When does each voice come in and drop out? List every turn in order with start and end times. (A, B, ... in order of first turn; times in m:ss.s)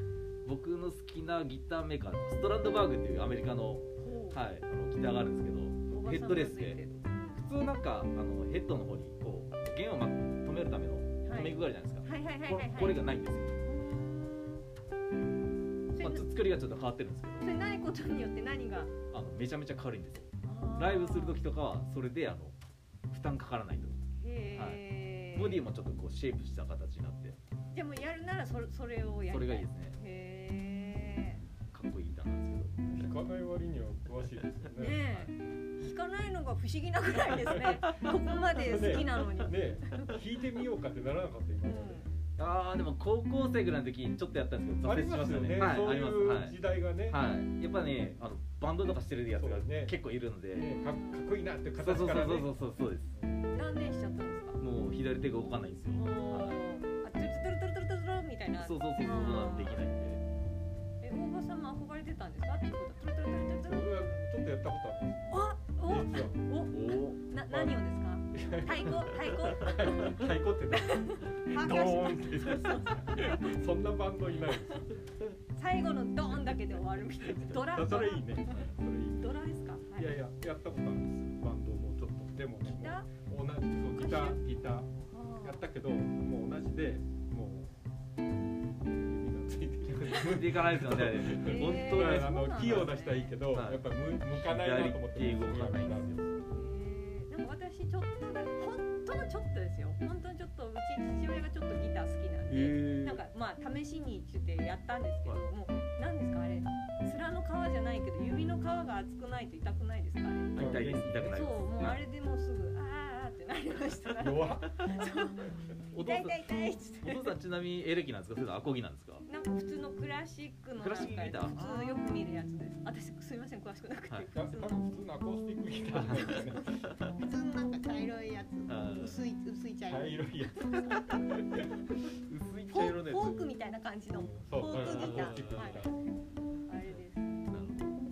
0:00.4-0:06.8 A
0:04.0-0:04.4 B
0:05.9-0:07.4 B
0:07.4-0:13.5 A
0:11.2-0:13.0 B
0:13.6-0:14.6 B
0:15.9-0:16.3 B
0:16.0-0:17.5 A
0:17.4-0:18.9 B
0:19.1-0:22.5 A
0:20.4-0:21.4 B
0:23.1-0:24.0 A
0:24.2-0:25.6 B
0:24.5-0:27.4 A
0:27.7-0:31.4 B
0:29.3-0:30.0 A
0:31.7-0:32.9 A
0:32.8-0:35.0 C
0:34.8-0:40.2 B
0:34.9-0:35.3 A
0:37.5-0:37.8 C
0:38.6-0:42.0 C
0:41.6-0:42.1 B
0:42.4-0:46.6 A
0:44.8-0:47.2 C
0:47.1-0:50.7 A
0:49.4-0:50.0 C
0:50.5-0:52.5 C
0:50.7-0:51.2 B
0:51.8-0:53.1 A
0:53.1-0:53.4 C
0:53.5-0:54.6 B
0:54.6-0:56.6 A
0:55.9-0:59.9 B
0:58.6-1:00.2 A
1:01.0-1:04.3 B
1:03.6-1:06.5 C
1:05.3-1:13.6 B
1:06.7-1:07.2 A
1:07.5-1:07.8 C
1:08.3-1:15.0 C
1:15.5-1:18.6 B
1:17.6-1:19.4 C
1:19.2-1:20.2 B
1:19.9-1:24.9 C
1:22.6-1:23.1 B
1:24.0-1:24.4 B
1:25.1-1:25.6 B
1:25.4-1:27.8 C
1:28.8-1:36.3 C
1:29.9-1:32.9 A
1:31.4-1:33.3 B
1:33.5-1:36.2 A
1:36.5-1:57.3 B
1:42.4-1:43.2 A
1:50.5-1:52.0 A
1:50.6-1:51.5 C
1:54.2-1:55.0 C
1:55.9-1:56.4 A
1:57.0-1:59.2 A
1:59.3-2:04.8 B
2:00.8-2:01.8 A
2:04.3-2:07.1 C
2:06.0-2:11.3 B
2:06.0-2:06.3 A
2:08.7-2:09.3 A
2:09.8-2:11.9 C
2:12.3-2:13.5 A
2:12.7-2:16.2 B
2:14.2-2:16.1 C
2:14.7-2:15.8 A
2:16.7-2:17.4 B
2:16.8-2:17.9 A